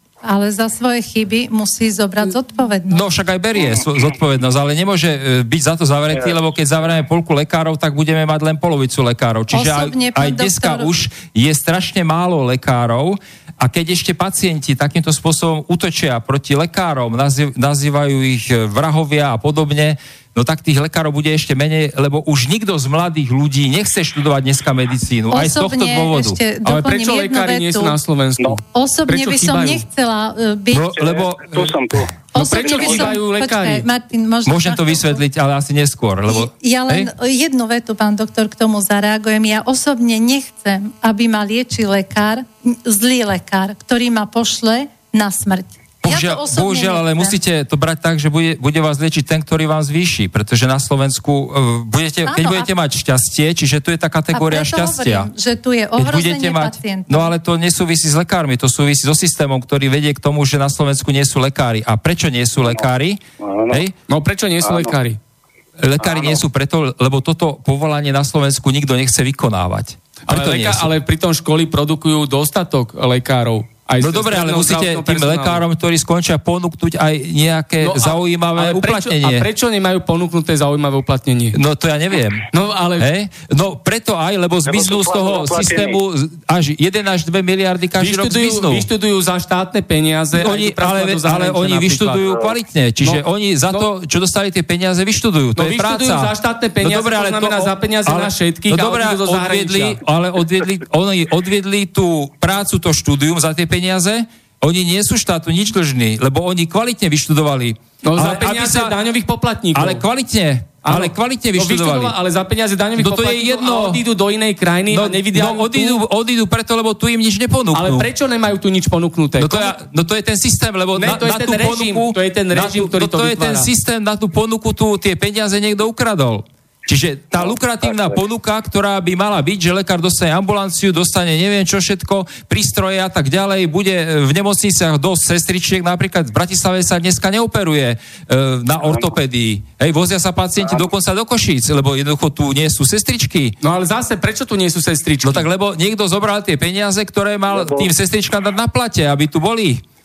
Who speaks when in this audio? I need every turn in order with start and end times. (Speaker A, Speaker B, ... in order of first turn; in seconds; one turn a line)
Speaker A: 0.2-3.0
Speaker B: 2.9-26.4
Speaker A: 9.5-10.9
Speaker A: 25.3-28.0
Speaker C: 26.6-29.8
Speaker A: 28.6-30.9
Speaker B: 30.7-31.8
Speaker D: 30.9-33.1
Speaker C: 32.3-33.9
Speaker A: 32.3-35.2
Speaker B: 34.4-37.1
Speaker A: 36.3-47.4
Speaker B: 46.0-55.3
Speaker A: 52.2-52.7
Speaker A: 54.3-57.3
Speaker B: 56.0-63.9
Speaker D: 63.4-63.8
Speaker C: 64.1-65.2
Speaker D: 64.6-64.9
Speaker B: 65.8-70.9
Speaker D: 66.0-66.4
Speaker C: 70.3-75.6
Speaker B: 74.0-79.5
Speaker C: 77.8-81.6
Speaker B: 81.5-82.5
Speaker C: 82.5-83.1
Speaker B: 83.0-88.9
Speaker D: 84.7-86.0
Speaker C: 88.0-92.2
Speaker B: 90.3-108.9
Speaker C: 93.0-93.9
Speaker C: 95.5-100.0
Speaker C: 108.0-110.0
Speaker B: 109.7-112.2
Speaker C: 110.8-116.0
Speaker B: 113.0-114.0
Speaker B: 114.9-118.1
Speaker C: 117.7-119.7
Speaker B: 119.4-143.6
Speaker C: 121.0-123.7
Speaker C: 143.6-145.5
Speaker B: 145.2-149.8
Speaker D: 147.5-147.9